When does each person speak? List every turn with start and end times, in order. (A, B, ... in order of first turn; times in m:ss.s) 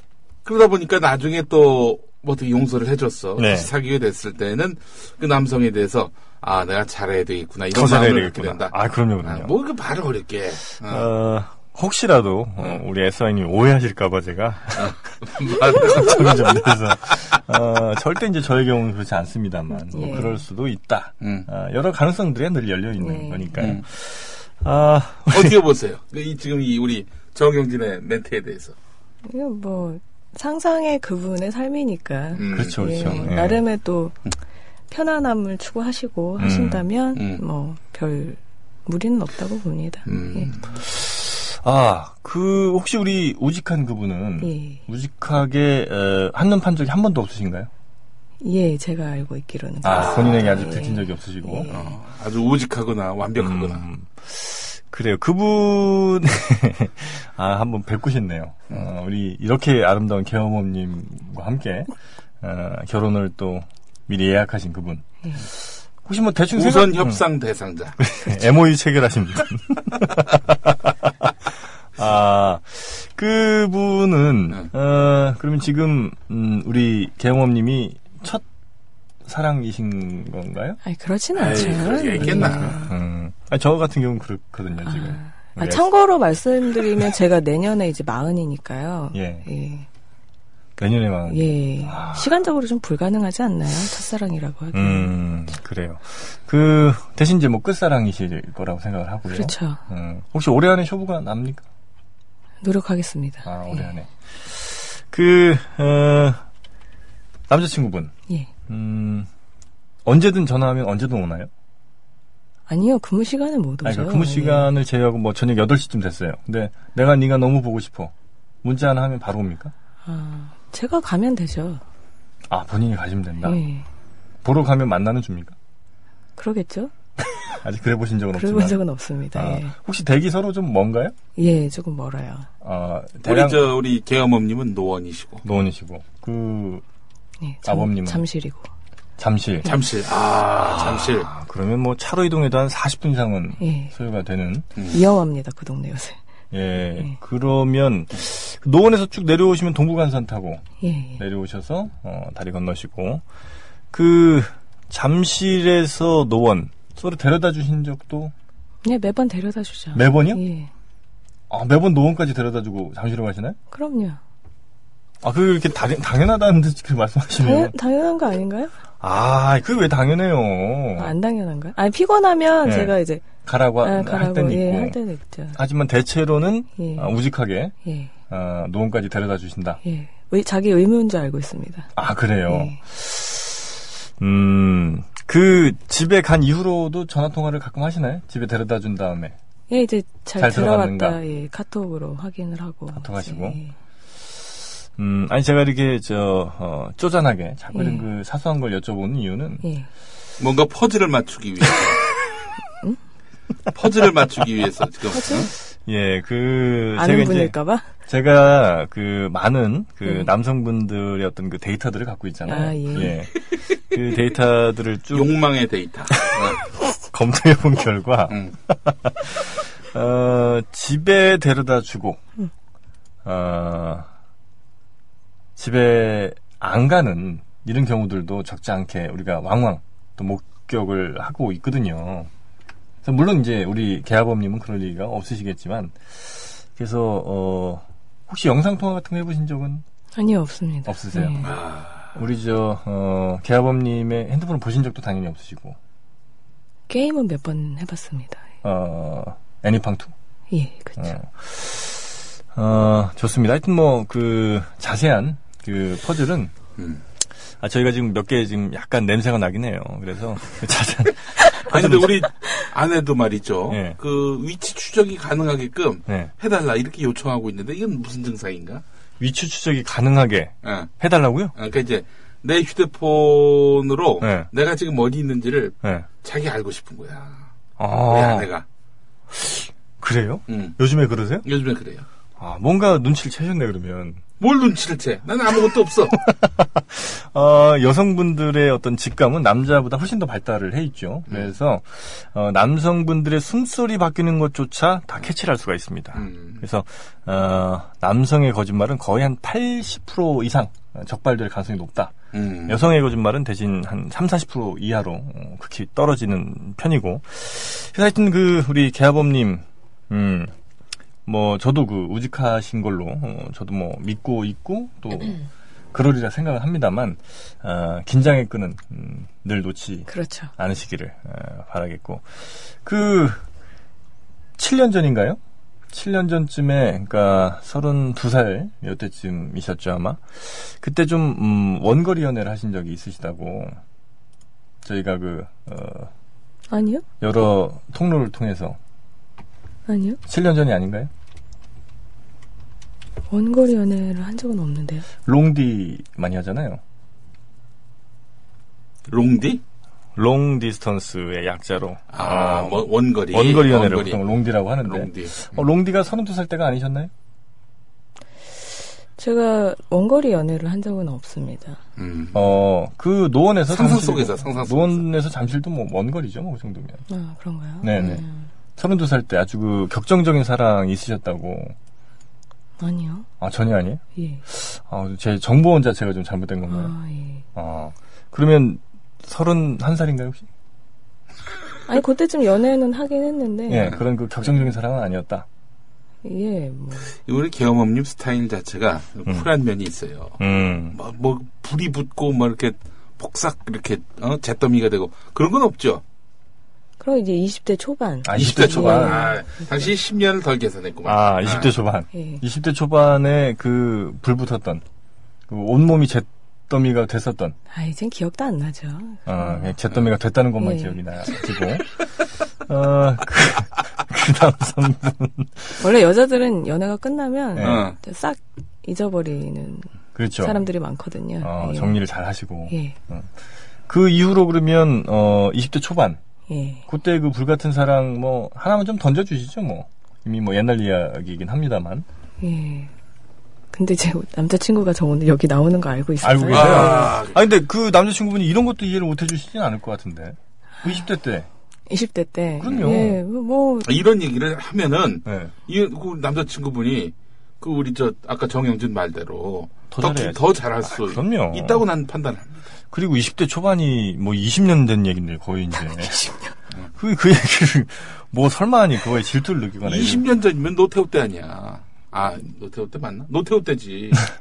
0:00.4-0:11.1 A
0:03.4-0:03.7 B
0:07.7-0:09.5 B
0:10.8-0:25.6 B
0:14.8-0:16.7 A
0:19.9-0:20.4 C
0:21.2-0:21.5 A
0:23.0-0:23.7 C
0:23.6-0:23.8 A
0:25.3-0:28.7 A
0:29.2-0:34.1 C
0:32.4-0:33.3 A
0:32.5-0:33.6 B
0:34.9-0:40.5 C
0:36.4-0:36.8 B
0:37.1-0:37.4 A
0:40.0-0:40.7 A
0:40.9-0:47.7 B
0:44.4-0:44.8 C
0:48.4-0:52.0 C
0:49.8-0:51.7 B
0:49.9-0:50.4 A
0:51.7-0:53.8 A
0:53.4-1:07.2 B
1:06.5-1:08.0 A
1:08.0-1:18.4 B
1:19.2-1:20.8 B
1:20.8-1:22.9 C
1:21.4-1:22.8 A
1:21.5-1:25.9 B
1:24.8-1:29.9 C
1:29.1-1:29.4 B
1:30.8-1:32.4 B
1:31.3-1:35.2 C
1:34.7-1:41.6 B
1:39.3-1:39.8 C
1:42.6-1:43.9 C
1:43.4-1:46.4 B
1:47.5-1:48.1 B
1:48.7-1:49.3 B
1:50.0-1:51.5 B
1:52.7-1:54.7 C
1:53.8-1:59.7 B
2:00.0-2:01.8 C
2:02.5-2:03.6 B
2:03.4-2:03.8 C
2:04.4-2:05.5 B
2:06.4-2:06.9 C
2:07.4-2:08.8 B
2:08.3-2:09.7 C
2:09.3-2:11.1 B
2:11.4-2:12.5 C
2:12.6-2:13.6 B
2:13.2-2:15.4 A
2:15.4-2:16.8 B
2:17.4-2:18.7 C
2:17.6-2:18.2 B
2:19.2-2:19.7 B
2:19.6-2:21.3 A
2:20.6-2:24.7 B
2:23.6-2:23.9 C
2:24.9-2:26.2 C
2:26.5-2:30.6 B
2:30.8-2:31.2 C
2:31.2-2:33.2 B
2:33.9-2:38.3 B
2:38.8-2:40.7 C
2:39.9-2:40.4 B
2:41.5-2:43.6 B
2:43.7-2:44.2 C
2:45.2-2:47.7 B
2:47.4-2:48.7 C
2:49.0-2:51.1 B
2:51.0-2:53.2 C
2:52.6-2:55.0 B
2:53.8-2:55.6 C
2:55.5-2:57.7 B
2:56.8-2:57.1 C
2:57.8-2:58.1 C
2:58.3-2:59.8 B
2:59.8-3:01.9 C
3:01.9-3:09.3 B
3:02.5-3:02.8 C
3:09.7-3:13.7 C
3:10.4-3:11.2 B
3:12.9-3:13.6 B
3:15.0-3:19.6 B
3:17.7-3:18.0 C
3:20.4-3:22.1 A
3:23.7-3:25.5 A
3:25.1-3:25.5 C
3:25.8-3:27.5 B
3:27.0-3:27.9 C
3:28.1-3:35.4 B
3:32.4-3:33.2 C
3:35.1-3:36.6 A
3:36.1-3:42.2 B
3:38.3-3:38.6 A
3:43.2-3:44.1 B
3:45.6-3:52.3 B
3:53.0-3:59.8 B
4:00.1-4:01.5 C
4:00.9-4:01.5 B
4:01.4-4:02.1 A
4:02.1-4:05.8 B
4:06.9-4:08.4 C
4:08.6-4:10.1 B
4:10.5-4:11.2 C
4:11.0-4:16.5 B
4:16.8-4:17.0 A
4:17.6-4:22.2 B
4:21.6-4:28.8 A
4:23.7-4:24.0 B
4:29.2-4:31.5 B
4:30.6-4:30.9 A
4:31.5-4:37.5 A
4:34.2-4:34.5 B
4:35.8-4:36.1 B
4:37.8-4:38.5 B
4:38.1-4:38.6 A
4:39.3-4:41.4 B
4:40.5-4:40.8 A
4:41.4-4:42.0 A
4:42.4-4:44.2 B
4:44.4-4:46.2 A
4:46.1-5:02.2 B
4:56.1-4:56.6 A
5:02.3-5:02.8 A
5:02.7-5:10.5 B
5:11.2-5:23.4 B
5:20.1-5:20.5 C
5:24.6-5:25.4 B
5:25.9-5:33.8 B
5:34.8-5:36.1 B
5:36.7-5:37.0 C
5:37.2-5:38.8 B
5:39.9-5:40.2 C
5:40.3-5:41.1 B
5:43.3-5:45.0 C
5:45.2-5:46.8 B
5:49.1-5:49.6 A
5:50.2-5:57.1 B
5:52.1-5:54.2 A
5:54.8-5:55.6 A
5:59.2-6:01.8 C
6:02.0-6:02.5 A
6:02.3-6:07.0 B
6:03.7-6:05.0 A
6:07.1-6:08.5 C
6:07.8-6:08.2 B
6:08.8-6:11.7 B
6:12.8-6:13.3 C
6:13.4-6:16.9 B
6:14.2-6:14.4 C
6:16.7-6:17.4 C
6:17.5-6:20.4 B
6:21.9-6:24.0 C
6:23.7-6:25.4 B
6:26.2-6:27.1 C
6:27.2-6:30.4 A
6:30.4-6:31.0 B
6:30.9-6:36.0 A
6:37.0-6:39.9 C
6:38.2-6:39.3 B
6:38.3-6:41.7 A
6:41.0-6:44.8 B
6:42.1-6:42.4 C
6:45.5-6:47.6 B
6:47.7-6:49.7 C
6:49.2-6:55.8 B
6:50.6-6:51.0 C
6:55.8-6:59.9 C
6:57.5-6:57.8 B
6:57.6-6:58.0 A
7:00.1-7:00.6 B
7:00.4-7:02.0 C
7:01.4-7:03.3 B
7:02.7-7:03.0 C
7:03.9-7:06.2 B
7:06.5-7:06.8 C
7:06.9-7:12.0 B
7:12.4-7:12.9 C
7:13.7-7:17.1 C
7:16.2-7:21.5 B
7:16.5-7:17.4 A
7:21.9-7:23.9 C
7:22.6-7:23.2 B
7:22.7-7:22.9 A
7:23.8-7:32.6 A
7:25.2-7:25.5 B
7:29.9-7:31.8 B
7:32.9-7:36.2 B
7:35.8-7:36.5 C
7:37.0-7:40.2 B
7:39.8-7:44.3 A